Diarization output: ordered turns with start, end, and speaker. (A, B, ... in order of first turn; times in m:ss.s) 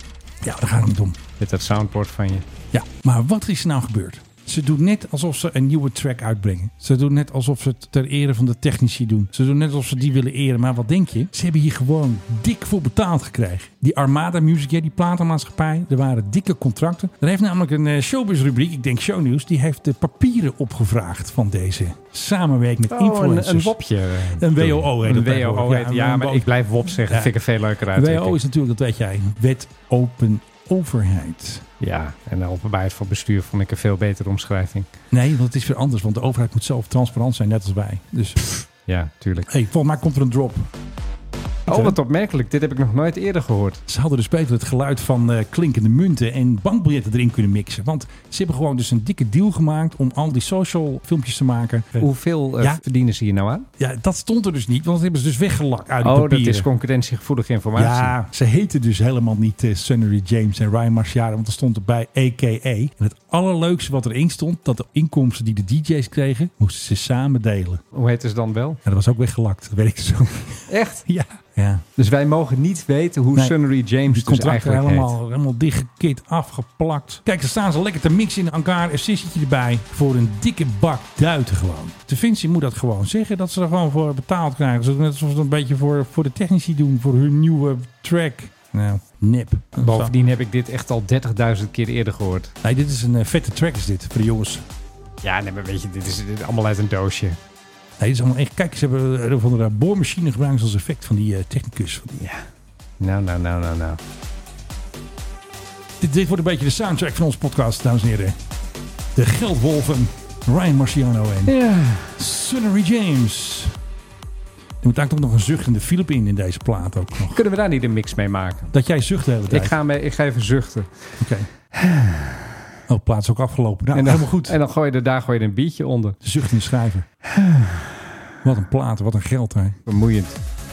0:00.4-0:01.2 A
0:01.4-0:02.4 B
0:02.7-0:23.7 A
0:22.9-0:28.4 B
0:24.3-0:27.3 A
0:27.9-0:31.6 A
0:31.8-0:34.9 B
0:35.1-0:38.6 A
0:38.9-0:39.5 B
0:39.5-0:40.7 A
0:41.7-0:42.0 A
0:41.7-0:43.8 B
0:43.9-0:52.8 A
0:52.0-0:53.7 B
0:53.8-0:56.7 A
0:56.0-0:58.1 B
0:57.8-1:07.8 A
1:07.9-1:08.8 B
1:08.8-1:11.8 A
1:10.7-1:11.2 B
1:12.0-1:15.1 B
1:13.3-1:30.1 A
1:29.7-1:32.5 B
1:32.6-1:34.6 A
1:35.2-1:37.4 B
1:38.0-1:42.1 A
1:42.2-1:42.4 B
1:43.0-1:44.0 B
1:46.0-1:48.4 A
1:49.1-1:51.5 A
1:51.4-1:52.1 B
1:52.2-1:53.8 A
1:54.8-1:57.4 A
1:57.2-1:58.7 B
1:58.7-1:59.8 A
1:59.5-2:01.2 B
2:01.2-2:01.5 A
2:01.7-2:02.4 B
2:02.9-2:04.6 A
2:03.9-2:06.2 B
2:06.2-2:07.0 A
2:07.3-2:08.0 B
2:08.4-2:09.8 A
2:09.9-2:10.4 B